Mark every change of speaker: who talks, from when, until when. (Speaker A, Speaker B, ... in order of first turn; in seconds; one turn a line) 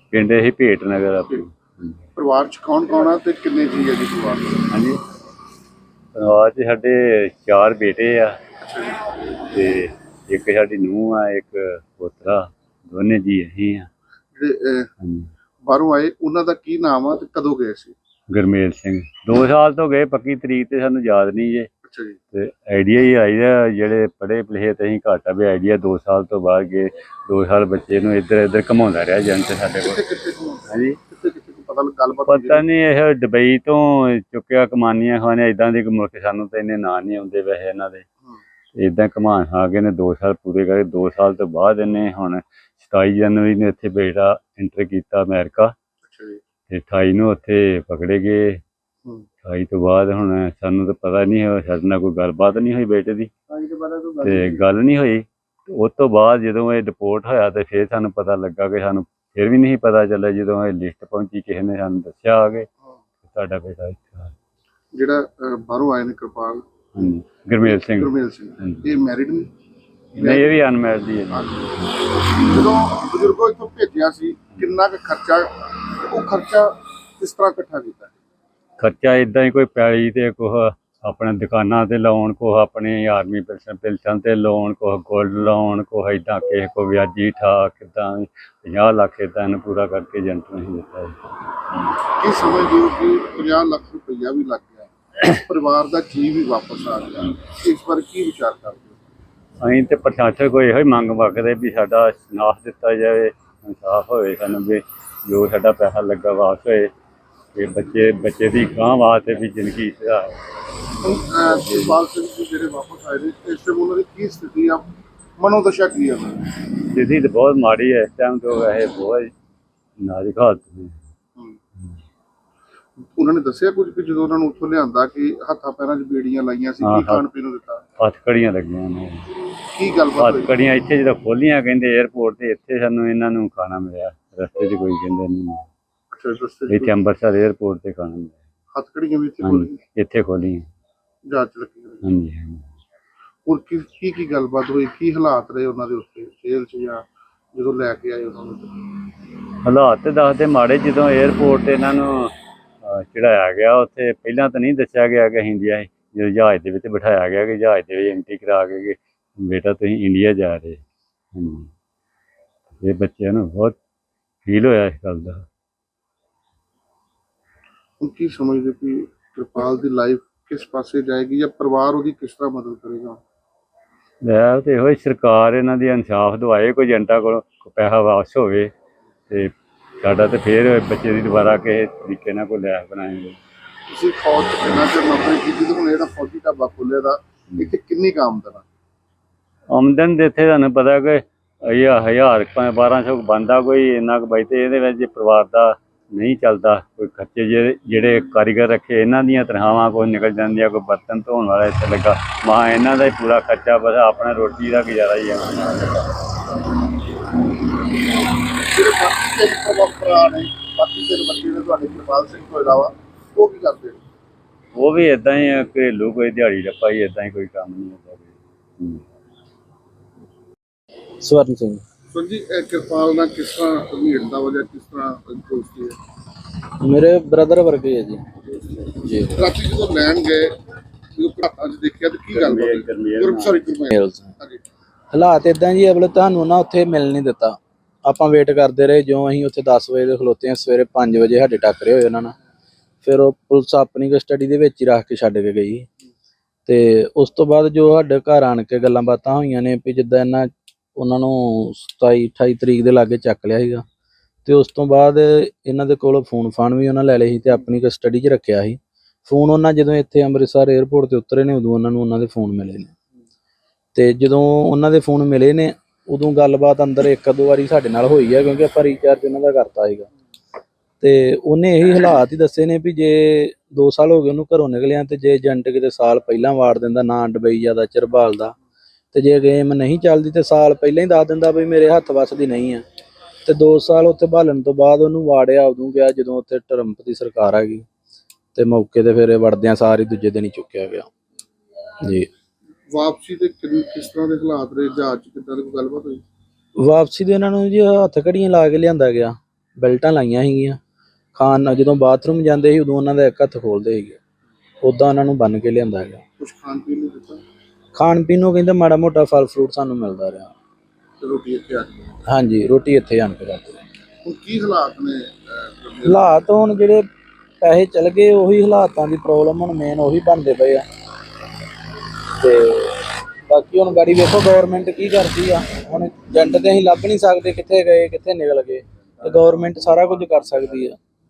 Speaker A: 0.1-2.0
Speaker B: 2.1-4.7
Speaker A: 4.7-5.0
Speaker A: 6.1-8.4
Speaker B: 8.6-9.0
Speaker A: 9.5-13.9
Speaker B: 14.3-14.9
Speaker A: 15.0-15.3
Speaker B: 15.6-17.9
Speaker A: 18.3-21.7
Speaker B: 21.8-22.2
Speaker A: 22.3-30.0
Speaker B: 29.7-32.6
Speaker A: 30.7-31.0
Speaker A: 32.3-38.0
Speaker A: 38.7-45.7
Speaker B: 46.0-46.4
Speaker A: 46.7-48.6
Speaker A: 49.4-53.3
Speaker B: 53.5-54.6
Speaker A: 54.2-62.7
Speaker A: 63.2-64.3
Speaker B: 64.9-66.6
Speaker A: 66.9-68.8
Speaker B: 67.6-69.5
Speaker A: 70.1-71.4
Speaker B: 70.2-70.6
Speaker B: 71.3-78.2
Speaker A: 78.8-91.2
Speaker B: 92.2-99.0
Speaker A: 99.6-106.9
Speaker A: 107.5-110.4
Speaker A: 110.9-112.0
Speaker B: 111.0-114.9
Speaker B: 115.4-116.5
Speaker A: 116.9-119.3
Speaker A: 120.0-121.0
Speaker B: 123.0-127.8
Speaker A: 126.8-127.2
Speaker A: 128.0-129.3
Speaker B: 129.7-130.5
Speaker A: 130.2-135.7
Speaker B: 136.1-136.9
Speaker A: 136.7-138.4
Speaker B: 138.7-139.8
Speaker A: 139.4-140.7
Speaker B: 141.3-142.1
Speaker A: 142.0-142.7
Speaker B: 143.4-148.7
Speaker A: 149.6-152.3
Speaker A: 152.8-160.8
Speaker A: 161.3-161.7
Speaker A: 162.7-163.8
Speaker A: 164.4-165.4
Speaker B: 168.0-173.2
Speaker A: 174.2-178.7
Speaker A: 179.3-183.4
Speaker B: 183.9-188.7
Speaker A: 189.7-206.2
Speaker B: 208.6-214.0
Speaker A: 214.7-219.0
Speaker C: 221.2-221.8
Speaker B: 222.1-225.9
Speaker C: 226.8-228.2
Speaker C: 228.9-229.4
Speaker B: 229.3-230.6
Speaker B: 231.2-234.6
Speaker A: 232.3-233.6
Speaker C: 233.9-234.3
Speaker C: 235.1-242.3
Speaker C: 243.0-245.9
Speaker C: 246.7-253.8
Speaker C: 254.4-262.9
Speaker C: 263.9-270.1
Speaker C: 271.0-278.5
Speaker C: 279.1-282.8
Speaker C: 283.4-287.8
Speaker C: 288.5-291.1
Speaker C: 292.0-292.3
Speaker B: 292.9-296.2
Speaker C: 296.8-300.8
Speaker C: 301.3-304.2
Speaker C: 304.8-306.2
Speaker B: 306.4-307.4
Speaker C: 307.9-310.5
Speaker B: 311.2-311.9
Speaker C: 312.3-313.8
Speaker B: 314.2-316.3
Speaker C: 316.1-317.0
Speaker C: 317.6-320.8
Speaker C: 322.4-330.9
Speaker A: 329.2-330.9